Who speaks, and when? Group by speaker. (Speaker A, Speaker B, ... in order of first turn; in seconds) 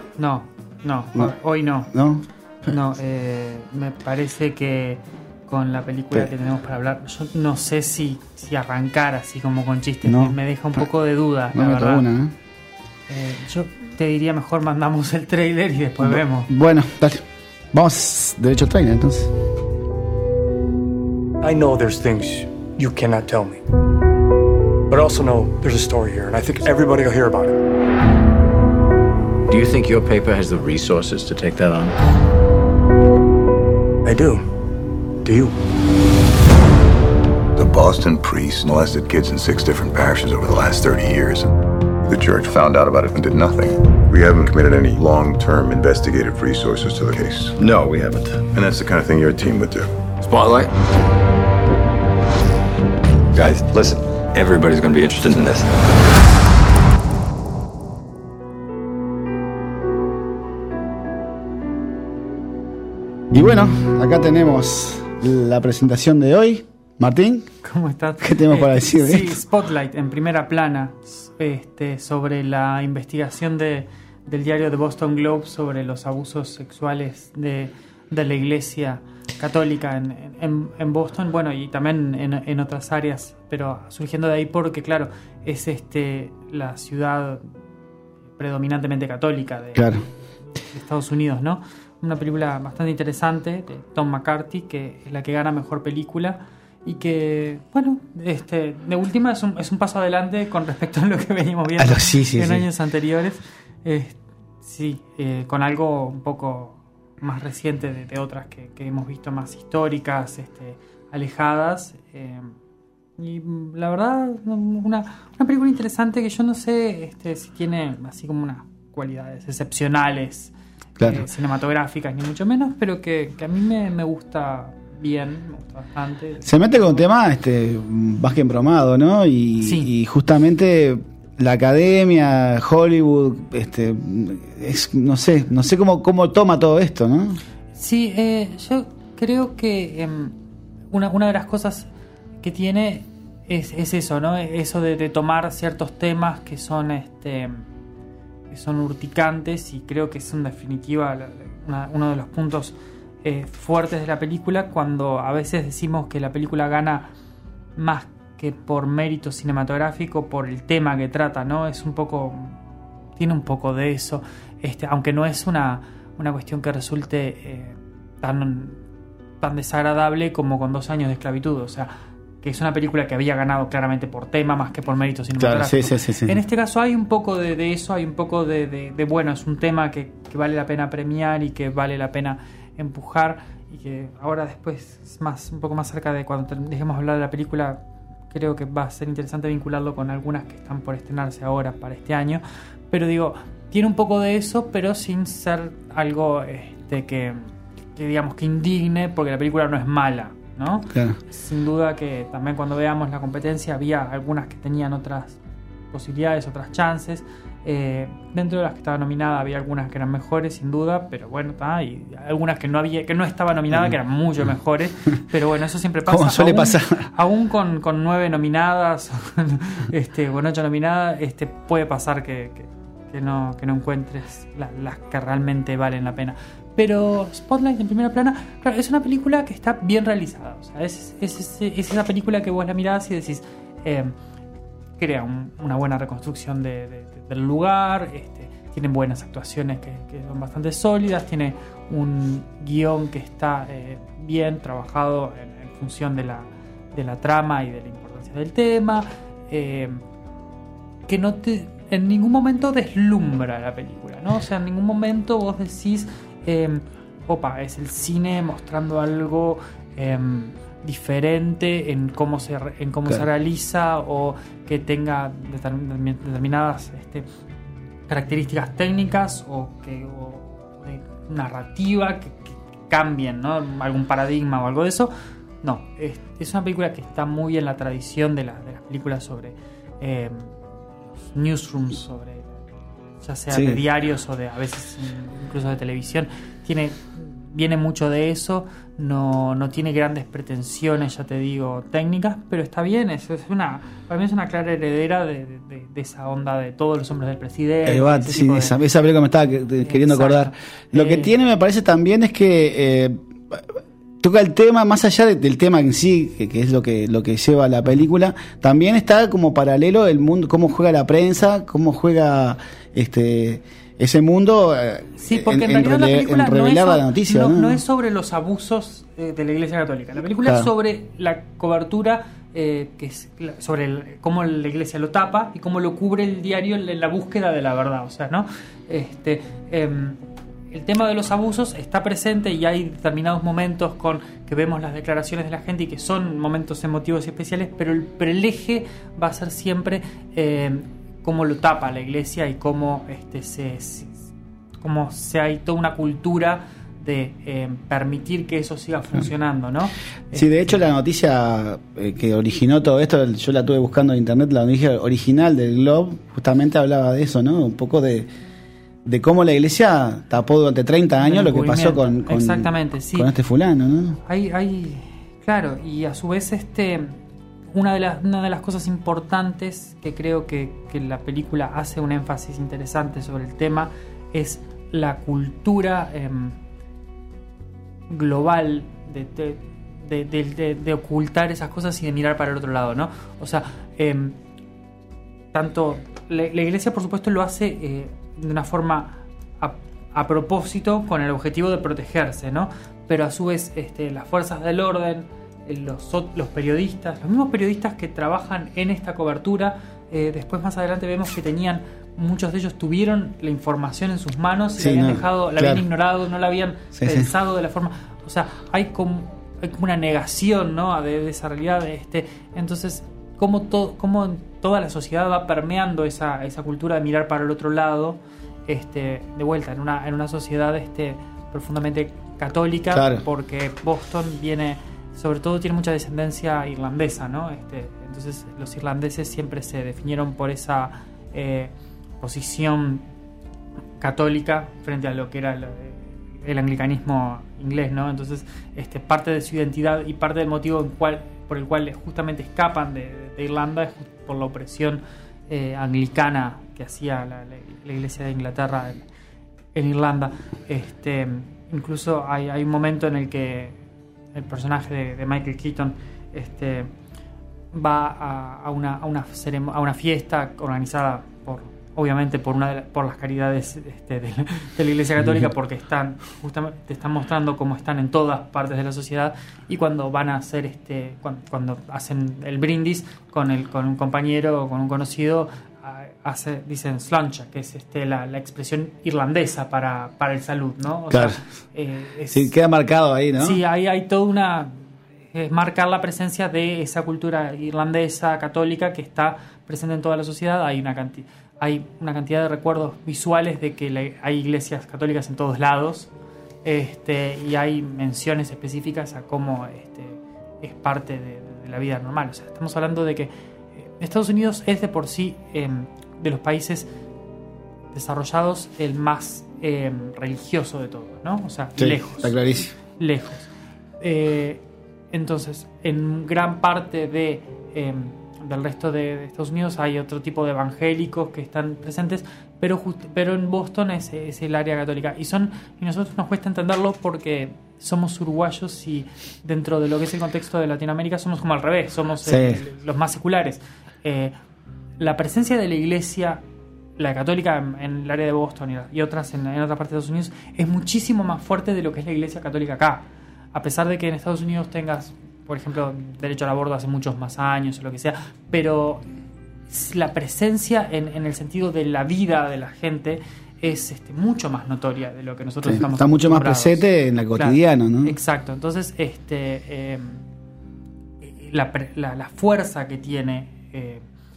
Speaker A: 0.2-1.9, 2.7-12.1, 13.1-16.5, 67.6-87.4, 88.4-90.1, 90.7-112.5, 113.2-127.0, 129.6-129.9, 137.8-140.3, 140.9-141.9, 142.4-147.6, 148.5-157.1, 157.8-162.6, 163.2-168.8, 169.4-205.4, 205.9-234.2, 235.0-250.0, 251.1-267.3, 268.1-275.1, 275.6-280.6, 281.3-282.5, 283.2-298.8, 299.8-301.3, 315.2-330.2, 330.7-344.3, 344.8-350.8, 361.2-363.3, 364.3-367.1, 367.7-376.6, 378.1-384.4, 385.5-433.0, 434.0-449.0, 449.8-453.8, 454.4-456.9, 457.7-482.5, 483.4-496.1, 496.6-506.9, 507.9-512.4, 513.0-513.5, 514.0-514.6, 515.1-534.3, 535.0-536.4, 537.0-549.0, 549.7-556.8, 557.3-560.2, 561.2-564.0
Speaker B: 1.9-2.2, 10.0-10.8, 11.5-12.3, 16.0-19.3, 63.3-67.5, 68.2-69.4, 89.8-90.0, 101.8-102.7, 121.0-121.2, 126.4-137.4, 175.4-176.4, 200.9-201.2, 216.1-217.1, 283.5-283.8, 297.9-303.7, 304.2-317.8, 320.4-320.7, 350.3-358.3, 359.1-364.2, 404.8-405.8, 406.9-407.3, 422.9-423.2, 465.2-465.5, 481.1-481.4, 482.3-483.6, 511.8-512.7, 532.2-532.6, 555.6-558.1
Speaker C: 21.4-23.6, 24.9-27.6, 34.0-34.4, 35.2-35.5
Speaker D: 29.5-32.0, 47.6-48.4, 50.2-50.7, 53.3-55.8
Speaker E: 37.5-47.7, 48.3-49.9